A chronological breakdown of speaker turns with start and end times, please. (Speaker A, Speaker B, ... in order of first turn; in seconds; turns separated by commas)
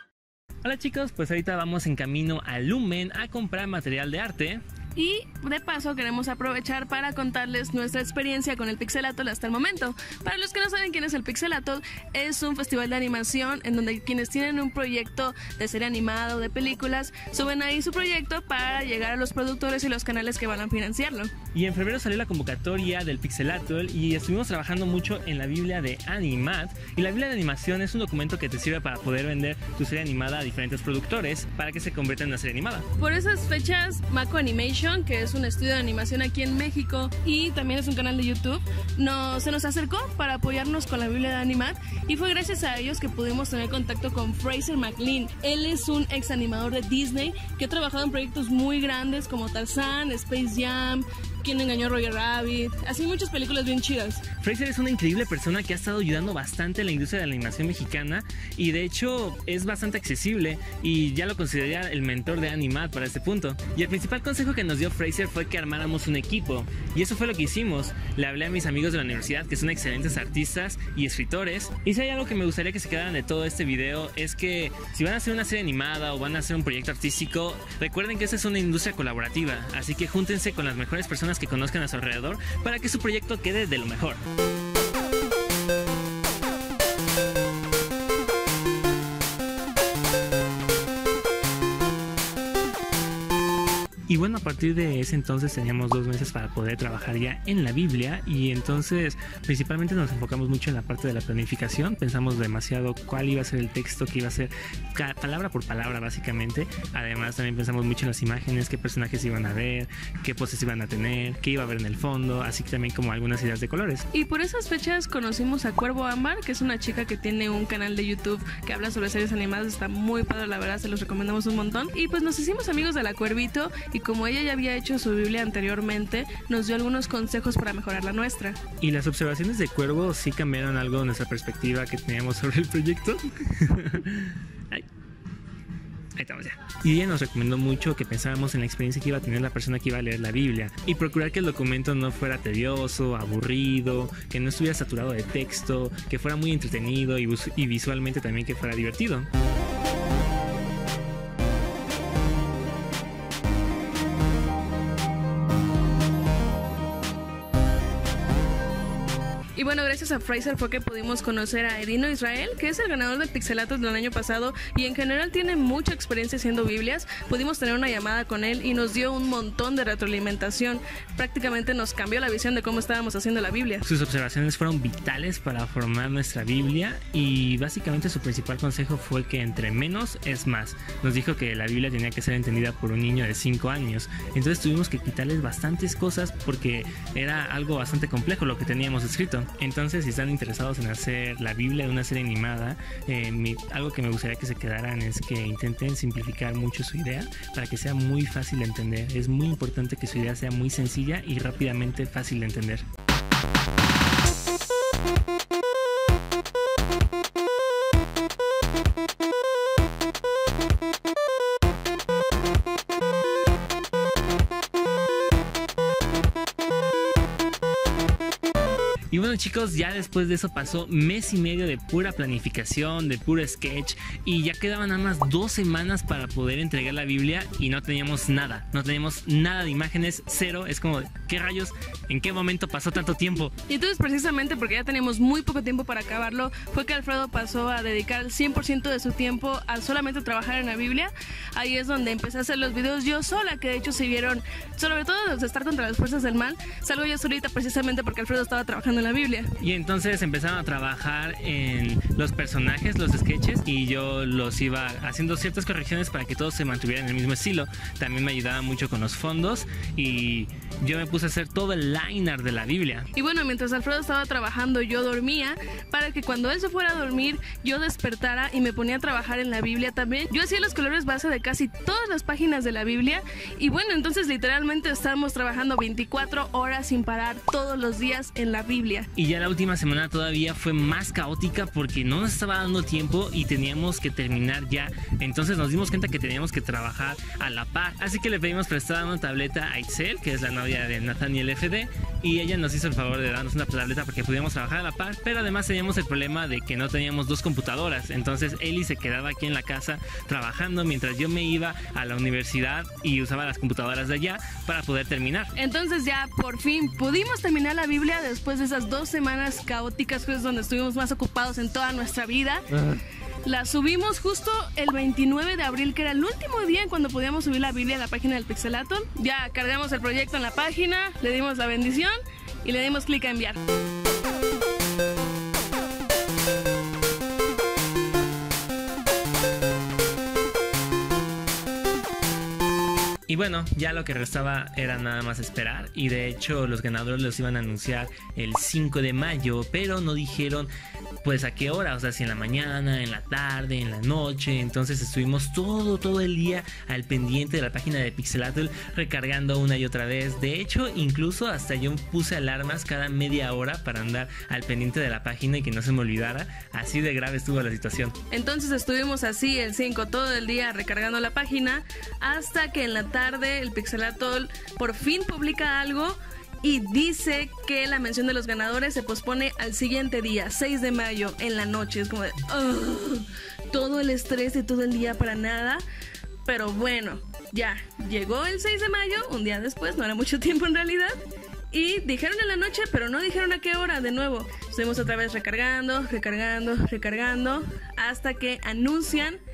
Speaker A: 0.6-4.6, Speaker B: 5.0-21.3, Speaker A: 21.5-32.9, Speaker B: 33.0-54.3, Speaker A: 54.4-84.2, Speaker A: 94.1-114.0, Speaker B: 114.1-128.6, Speaker A: 128.8-134.8, Speaker A: 136.2-149.3, Speaker B: 159.6-173.8, Speaker A: 173.8-202.8, Speaker A: 219.1-233.5, Speaker B: 233.7-249.5, Speaker A: 249.6-263.1, Speaker B: 263.1-279.1, Speaker A: 279.1-305.5, Speaker B: 305.6-323.6, Speaker A: 333.3-340.7, Speaker A: 341.2-358.2, Speaker B: 358.3-375.8, Speaker B: 376.4-381.1, Speaker B: 381.7-389.4